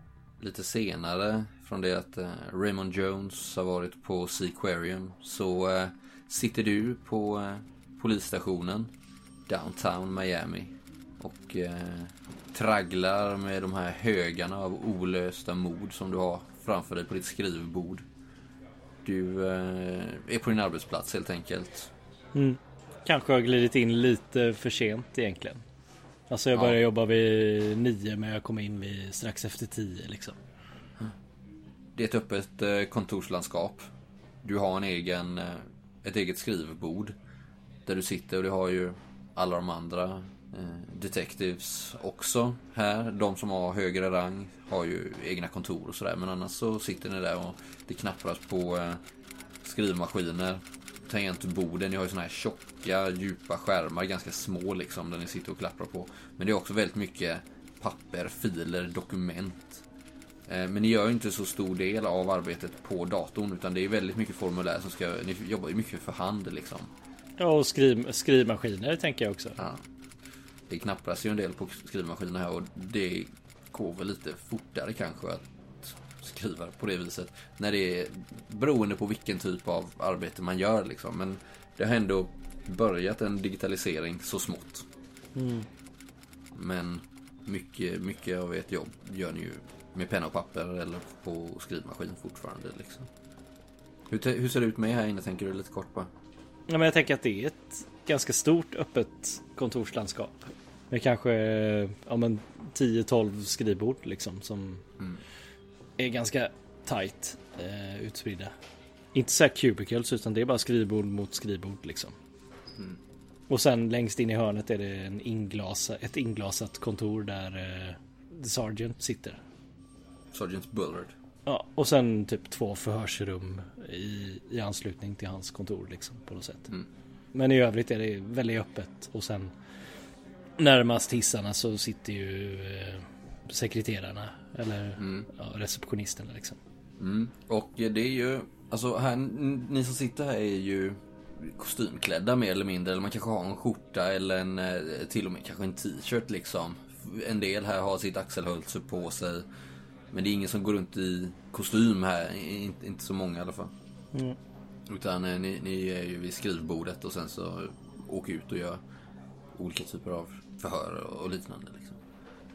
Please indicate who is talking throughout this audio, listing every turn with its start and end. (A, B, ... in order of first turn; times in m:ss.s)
0:00.4-0:08.9 A
0:09.5-0:18.0 A
0:19.0-0:21.9 A
0:22.3-0:25.6 B
0:26.3-0:30.4 B
0:26.5-0:26.8 A
0:31.9-0:33.9 A
0:34.4-0:37.2 A
0:37.9-0:49.0 A
0:49.6-0:59.8 A
1:00.5-1:06.9 A
1:07.4-1:09.6 B
1:09.6-1:09.8 A
1:10.7-1:24.9 A
1:25.3-1:25.7 B
1:26.5-1:33.1 A
1:34.1-1:36.1 A
1:36.7-1:40.4 B
1:40.9-1:44.8 B
1:46.0-1:48.5 B
1:49.1-1:52.1 B
1:53.5-1:59.4 B
2:00.3-2:01.1 A
2:01.4-2:06.7 B
2:07.3-2:09.5 B
2:10.6-2:16.6 B
2:15.0-2:15.3 A
2:17.0-2:29.4 A
2:30.1-2:33.7 A
2:34.9-2:38.8 A
2:39.6-2:42.0 A